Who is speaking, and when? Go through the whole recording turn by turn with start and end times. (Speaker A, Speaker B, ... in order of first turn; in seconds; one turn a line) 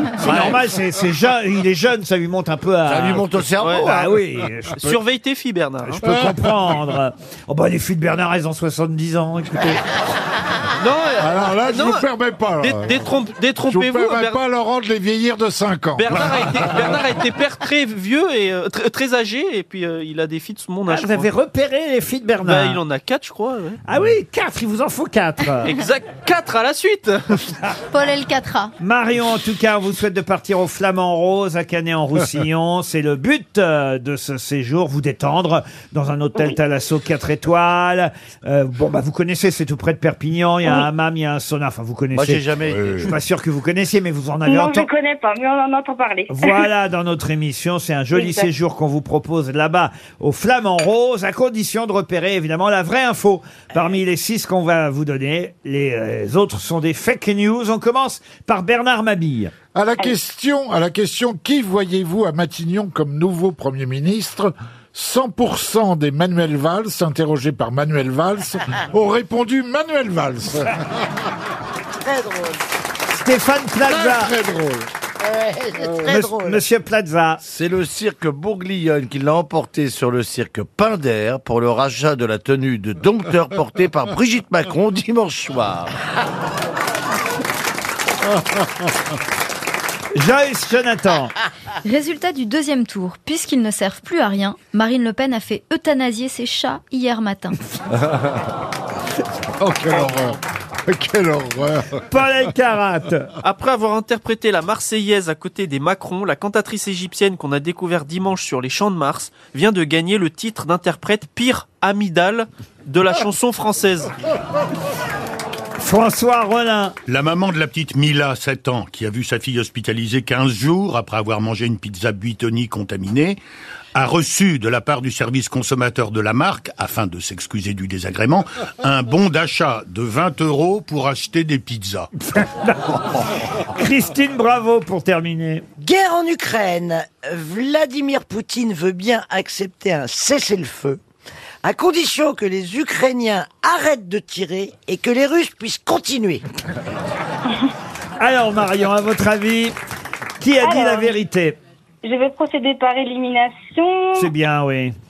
Speaker A: 0.2-3.2
Speaker B: 0.2-0.5
Speaker B: 2.9-4.1
Speaker C: 3.6-3.9
Speaker A: 3.8-5.0
Speaker C: 4.8-6.0
Speaker A: 6.0-9.8
Speaker D: 6.0-6.4
Speaker C: 10.8-12.1
Speaker D: 11.2-13.1
Speaker C: 12.6-14.4
Speaker D: 13.6-16.7
Speaker C: 16.0-21.3
Speaker A: 20.9-22.8
Speaker C: 22.4-23.8
Speaker A: 23.9-25.7
Speaker C: 25.6-27.6
Speaker E: 27.9-28.7
Speaker A: 28.8-42.5
Speaker B: 42.1-43.1
Speaker D: 42.7-43.1
Speaker A: 43.0-44.9
Speaker F: 44.5-46.7
Speaker A: 46.3-59.5
Speaker F: 48.1-48.5
Speaker D: 59.7-70.8
Speaker G: 72.0-72.6
Speaker A: 73.1-74.3
Speaker D: 73.9-74.9
Speaker G: 75.2-76.6
Speaker D: 75.8-76.1
Speaker A: 76.0-77.4
Speaker B: 77.4-85.9
Speaker A: 90.2-91.3
Speaker E: 91.8-97.6
Speaker D: 99.5-102.0
Speaker A: 102.1-103.3
Speaker C: 103.4-114.1
Speaker A: 115.8-117.0
Speaker H: 117.1-123.4
Speaker H: 124.0-132.1
Speaker A: 132.3-135.7
Speaker G: 135.8-141.0
Speaker G: 141.6-146.4
Speaker A: 148.2-149.8
Speaker A: 150.4-151.6
Speaker F: 150.6-151.2
Speaker F: 152.0-154.3
Speaker A: 154.2-154.9